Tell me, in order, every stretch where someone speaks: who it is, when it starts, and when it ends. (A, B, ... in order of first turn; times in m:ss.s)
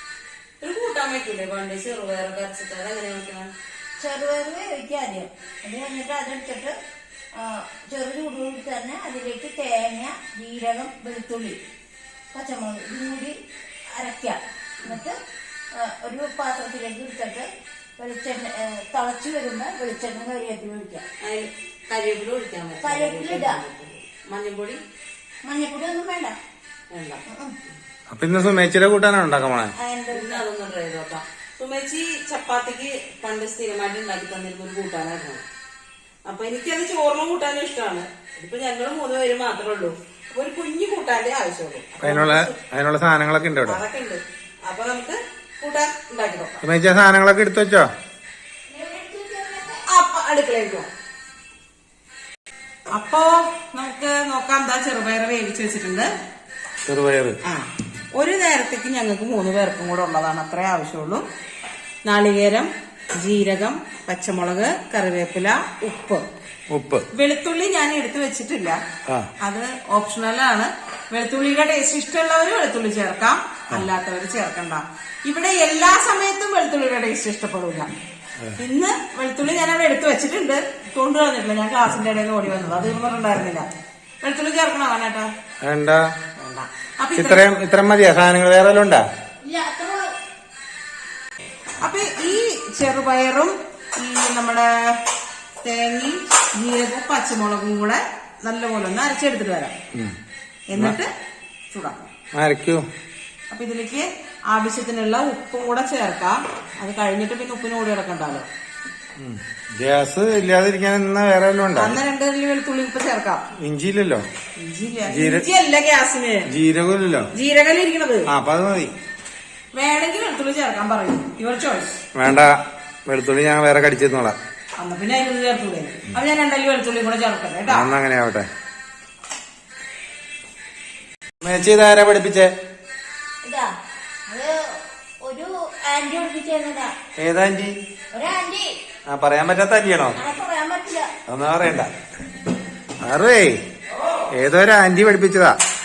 0:00.6-0:03.5 A
0:04.0-0:06.7 B
0:07.3-0:11.6 B
0:12.3-0:13.3 B
0:14.0-0:15.2 B
0:15.8-0:17.5 B
0:18.0-0:21.0 B
0:21.2-0:24.8 A
0:22.8-0:23.6 B
0:25.4-0:26.4 B
0:26.9-0:27.2 A
0:27.2-0:27.5 B
0:28.1-0:29.7 C
0:29.8-0:30.4 B
0:30.1-0:35.4 A
0:36.2-0:42.6 A
0:42.0-0:43.8 C
0:43.6-0:46.6 A
0:46.6-0:47.9 C
0:48.7-0:49.8 B
0:49.8-0:50.9 A
0:52.9-0:56.1 A
0:56.8-0:57.4 C
0:57.4-1:01.2 A
1:02.0-1:06.2 A
1:06.7-1:07.0 C
1:07.1-1:08.8 A
1:09.4-1:17.9 A
1:18.6-1:23.6 A
1:24.2-1:25.3 A
1:25.6-1:26.0 C
1:26.4-1:27.4 A
1:27.2-1:29.0 C
1:29.4-1:30.1 B
1:31.8-1:35.0 A
1:35.6-1:39.7 A
1:40.7-1:41.1 A
1:41.7-1:42.1 A
1:42.3-1:42.8 C
1:43.5-1:48.5 A
1:49.2-1:52.0 C
1:51.7-1:53.4 A
1:53.6-1:54.2 C
1:54.6-1:56.5 A
1:55.1-1:55.4 C
1:56.5-1:57.3 C
1:57.3-1:58.3 A
1:58.3-1:58.9 C
1:59.7-2:02.0 A
2:02.1-2:04.4 C
2:04.8-2:07.9 A
2:07.7-2:08.5 C
2:11.4-2:12.5 C
2:13.4-2:13.7 B
2:14.3-2:14.5 B
2:15.2-2:16.9 B
2:17.2-2:17.7 C
2:18.1-2:18.7 B
2:19.1-2:20.2 C
2:20.2-2:21.1 B
2:21.3-2:21.9 C
2:23.0-2:23.6 C
2:23.9-2:24.3 A
2:24.3-2:25.5 C